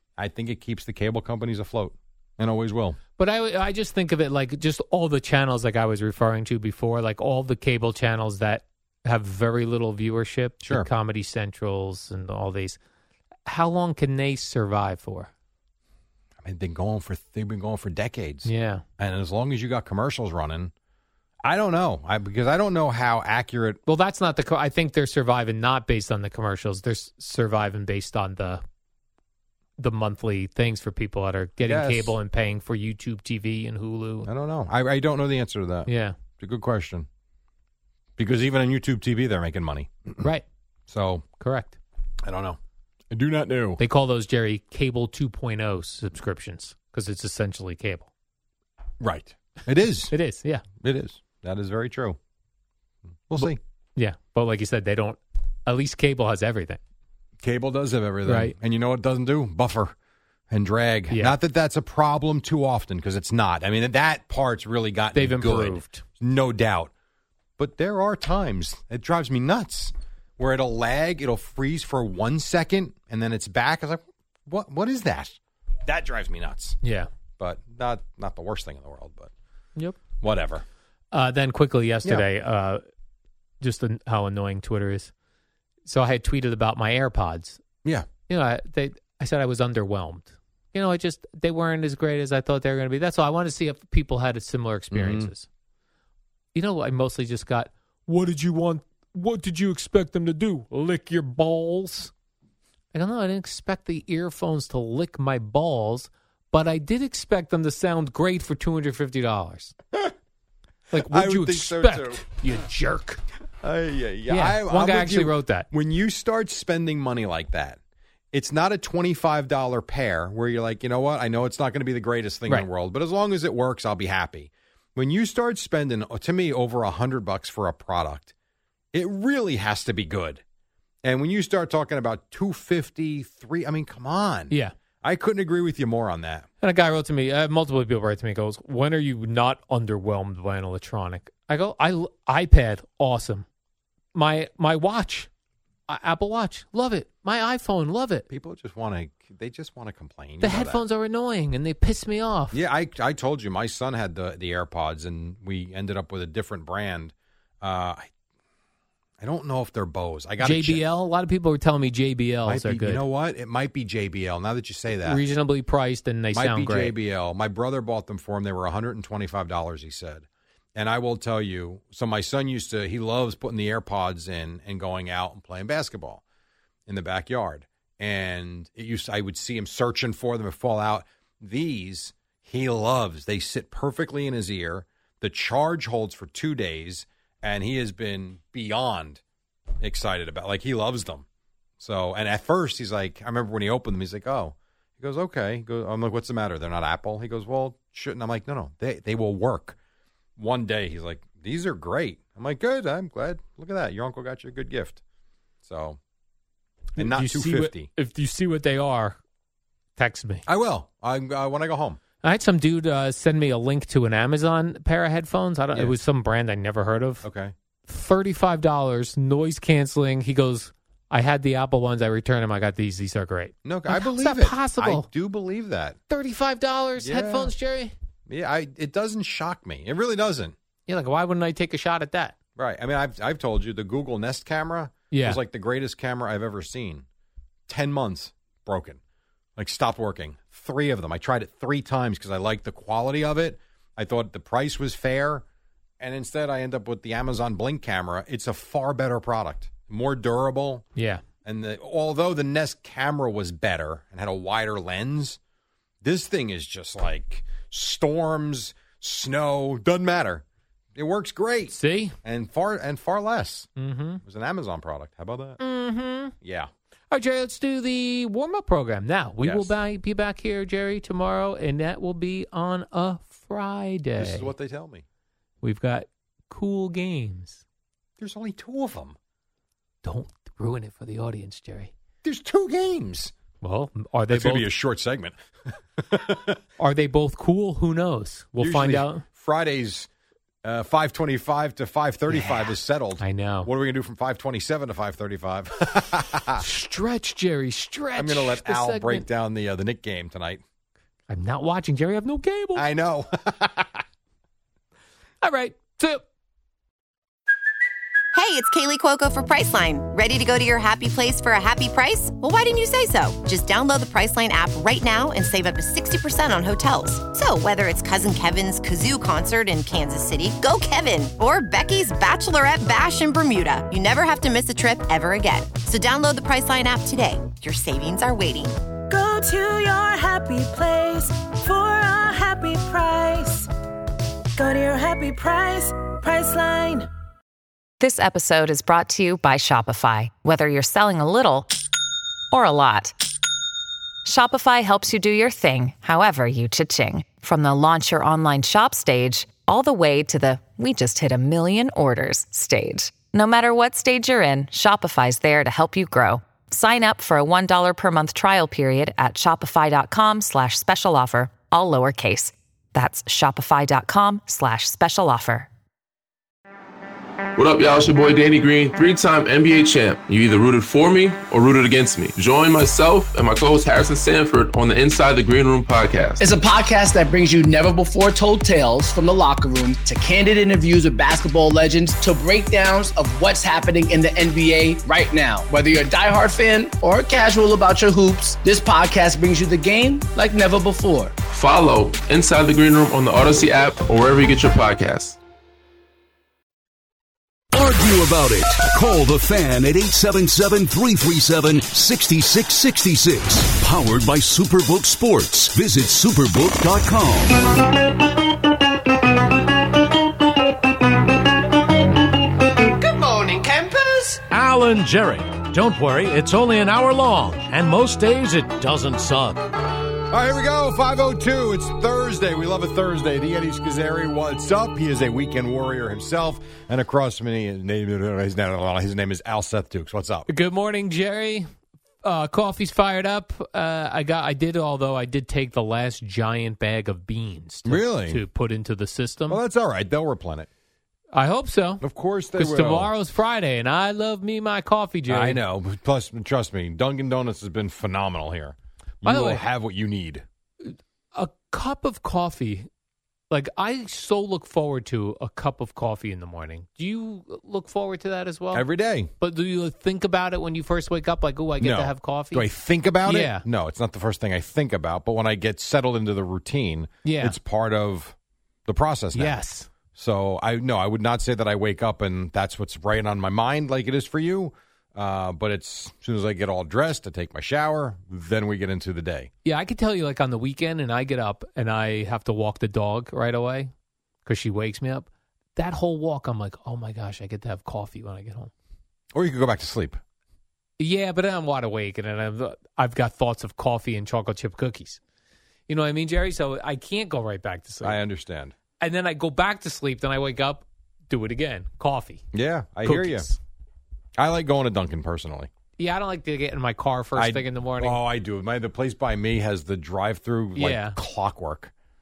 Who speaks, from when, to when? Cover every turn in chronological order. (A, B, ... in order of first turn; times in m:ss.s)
0:00.2-0:03.0 A
0:03.2-0:12.8 B
0:10.6-0:10.9 A
0:13.4-0:15.3 B
0:16.4-0:20.7 A
0:18.4-0:18.8 B
0:21.4-0:23.8 A
0:23.8-0:28.6 B
0:29.8-0:34.3 B
0:31.6-0:32.1 A
0:34.2-0:37.0 A
0:35.8-0:36.2 B
0:38.2-0:40.2 A
0:40.9-0:41.2 A
0:41.4-0:41.8 B
0:42.2-0:42.6 A
0:43.1-0:43.8 A
0:43.8-0:48.1 B
0:49.0-0:50.1 A
0:50.1-0:50.6 B
0:50.8-0:52.2 A
0:53.3-0:53.6 A
0:53.4-0:56.8 B
0:57.4-0:59.9 A
0:58.2-0:58.5 B
1:00.5-1:06.9 A
1:01.1-1:01.3 B
1:05.1-1:06.0 B
1:07.6-1:16.8 A
1:16.8-1:17.1 B
1:17.4-1:19.3 A
1:20.2-1:20.6 A
1:21.1-1:22.8 B
1:23.6-1:25.1 B
1:25.8-1:27.6 B
1:28.3-1:35.4 B
1:34.9-1:35.3 A
1:36.5-1:42.1 B
1:42.9-1:49.7 B
1:50.9-1:53.2 B
1:50.9-1:52.2 A
1:53.6-1:57.8 A
1:54.3-1:55.7 B
1:58.3-2:08.3 A
2:08.9-2:10.4 A
2:11.0-2:16.5 A
2:14.5-2:14.7 B
2:16.6-2:23.4 B
2:24.1-2:25.3 B
2:25.9-2:28.2 B
2:28.3-2:30.8 A
2:30.4-2:32.6 B
2:32.5-2:38.1 A
2:39.2-2:40.8 A
2:40.4-2:43.0 B
2:42.4-2:45.2 A
2:44.9-2:46.9 B
2:46.3-2:56.2 A
2:56.9-3:09.2 A
3:09.8-3:11.2 A
3:11.8-3:19.8 A
3:20.4-3:25.0 A
3:25.6-3:26.0 A
3:27.0-3:27.9 A
3:27.0-3:29.2 B
3:30.0-3:30.4 B
3:30.4-3:32.0 A
3:32.2-3:37.2 B
3:37.2-3:37.5 A
3:37.9-3:45.1 B
3:43.6-3:46.0 A
3:46.1-3:47.9 B
3:47.0-3:47.5 A
3:48.3-3:50.5 A
3:50.9-3:52.3 B
3:52.6-3:57.0 A
3:55.1-3:55.4 B
3:57.7-3:59.0 A
3:59.6-4:05.4 A
4:06.0-4:10.8 A
4:11.0-4:11.2 B
4:11.4-4:15.4 A
4:16.0-4:20.4 A
4:20.9-4:23.7 A
4:21.7-4:22.1 B
4:23.8-4:24.2 B
4:24.2-4:25.6 A
4:25.6-4:26.3 B
4:26.4-4:26.7 A
4:27.1-4:34.5 B
4:29.4-4:29.7 A
4:34.2-4:35.0 A
4:35.6-4:37.6 B
4:38.2-4:39.2 A
4:40.0-4:41.9 B
4:42.2-4:43.3 A
4:43.6-4:44.7 B
4:44.3-4:46.6 A
4:46.8-4:49.2 B
4:48.6-4:50.1 A
4:50.6-4:56.6 A
4:52.3-4:53.7 B
4:56.6-4:59.2 B
4:58.2-5:00.6 A
5:01.3-5:02.8 B
5:02.8-5:04.0 A
5:05.4-5:06.2 B
5:08.3-5:28.8 C
5:29.1-5:33.7 D
5:34.6-5:37.1 D
5:38.0-5:41.7 E
5:42.5-5:43.1 E
5:44.2-6:05.7 E
6:07.6-6:16.4 F
6:16.4-6:31.3 G
6:31.5-6:35.4 F
6:37.7-6:47.6 H
6:54.3-6:59.6 I
7:00.3-7:10.5 A
7:10.5-7:11.7 B
7:12.2-7:19.6 B
7:17.8-7:18.4 A
7:19.5-7:20.7 A
7:21.3-7:22.0 B
7:22.0-7:23.1 A
7:22.6-7:25.6 B
7:25.3-7:30.4 A
7:29.2-7:29.6 B
7:30.8-7:32.9 B
7:33.5-7:38.8 B
7:38.7-7:39.3 A
7:39.4-7:42.6 B
7:41.8-7:48.3 A
7:43.2-7:43.6 B
7:47.2-7:47.6 B
7:48.9-7:49.6 A
7:49.3-7:49.9 B
7:50.1-7:59.5 A
7:59.6-8:03.9 B
8:04.4-8:08.7 B
8:09.3-8:10.2 A
8:11.0-8:15.2 B
8:15.9-8:18.2 B
8:18.0-8:18.7 A
8:19.0-8:22.4 B
8:22.5-8:23.5 A
8:23.0-8:23.6 B
8:24.4-8:25.7 A
8:26.0-8:28.2 B
8:27.3-8:31.9 A
8:30.7-8:31.2 B